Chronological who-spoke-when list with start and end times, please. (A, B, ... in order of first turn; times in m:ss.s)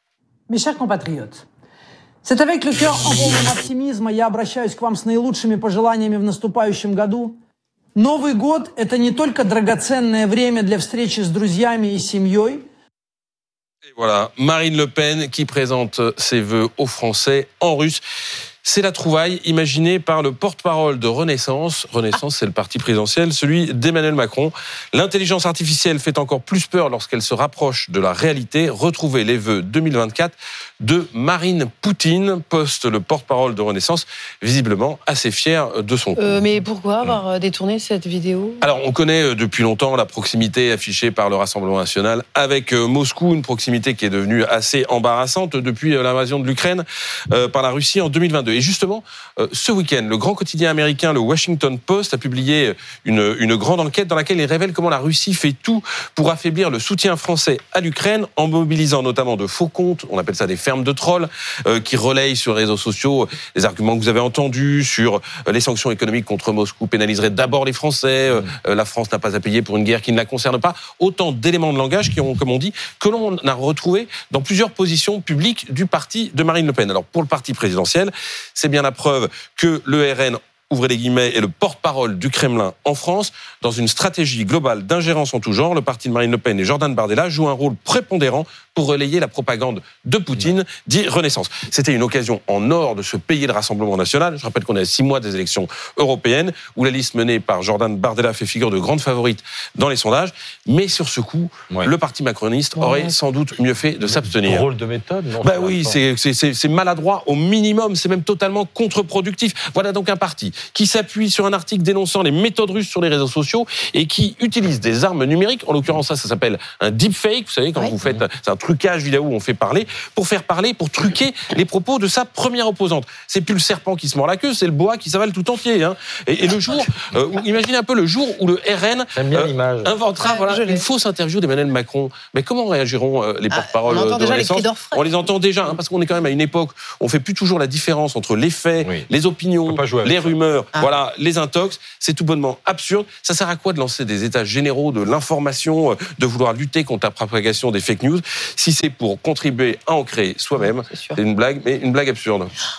0:00.5-0:01.4 A
0:02.2-0:07.4 A
0:08.0-0:12.6 A
0:14.0-0:18.0 B
0:18.6-0:36.4 B
0:36.2-0:38.6 C
0:38.6-1:44.7 B
1:42.8-1:43.1 C
1:44.1-1:46.0 D
1:45.4-2:32.5 B
2:09.1-2:09.9 D
2:10.2-2:10.8 C
2:13.5-2:15.1 C
2:18.8-2:19.1 D
2:19.7-2:20.3 D
2:30.9-2:31.2 C